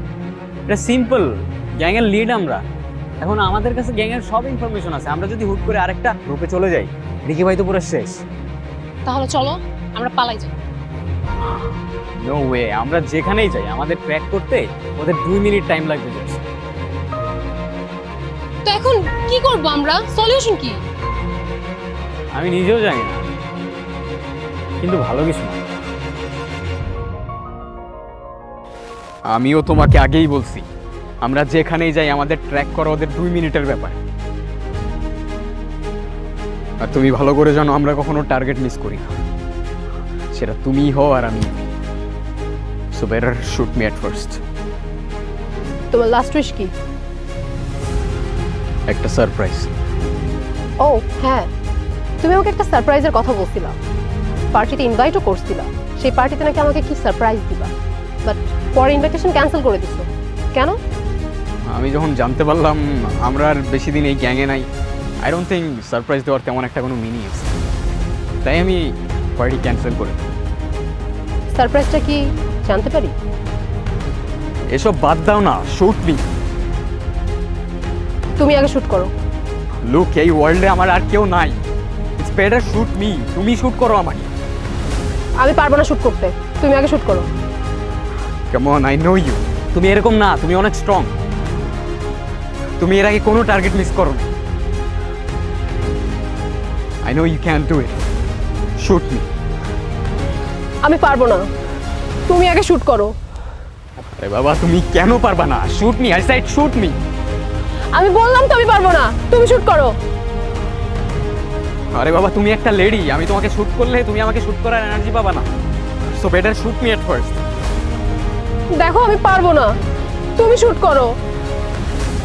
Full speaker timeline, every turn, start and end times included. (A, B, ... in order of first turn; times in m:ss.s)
0:00.7-0:02.6 A
0:03.2-0:08.2 A
0:09.1-0:10.5 B
0:12.2-0:16.4 A
0:18.6-0:20.8 B
0:22.3-0:23.2 A
0:24.8-0:25.6 A
0:29.3-0:30.7 A
0:31.2-0:34.0 A
0:36.8-0:39.2 A
0:40.3-0:41.7 A
0:42.9-0:44.4 A
0:45.9-0:46.7 B
0:48.9-0:49.7 A
0:50.8-0:51.5 B
0:52.2-0:53.8 B
0:54.5-0:57.7 B
0:58.2-1:00.8 B
1:01.7-1:04.7 A
1:05.2-1:07.5 A
1:08.4-1:10.2 A
1:11.5-1:13.2 B
1:14.7-1:16.2 A
1:18.4-1:19.1 B
1:19.8-1:21.6 A
1:22.2-1:24.3 A
1:25.4-1:27.3 B
1:28.5-1:31.1 A
1:32.8-1:34.3 A
1:37.0-1:38.0 A
1:38.8-1:39.3 A
1:40.8-1:41.4 B
1:42.3-1:43.2 B
1:44.1-1:47.0 A
1:47.9-1:49.9 B
1:51.9-1:55.5 A
1:56.1-1:57.4 A
1:58.8-1:59.7 B
2:00.4-2:01.1 B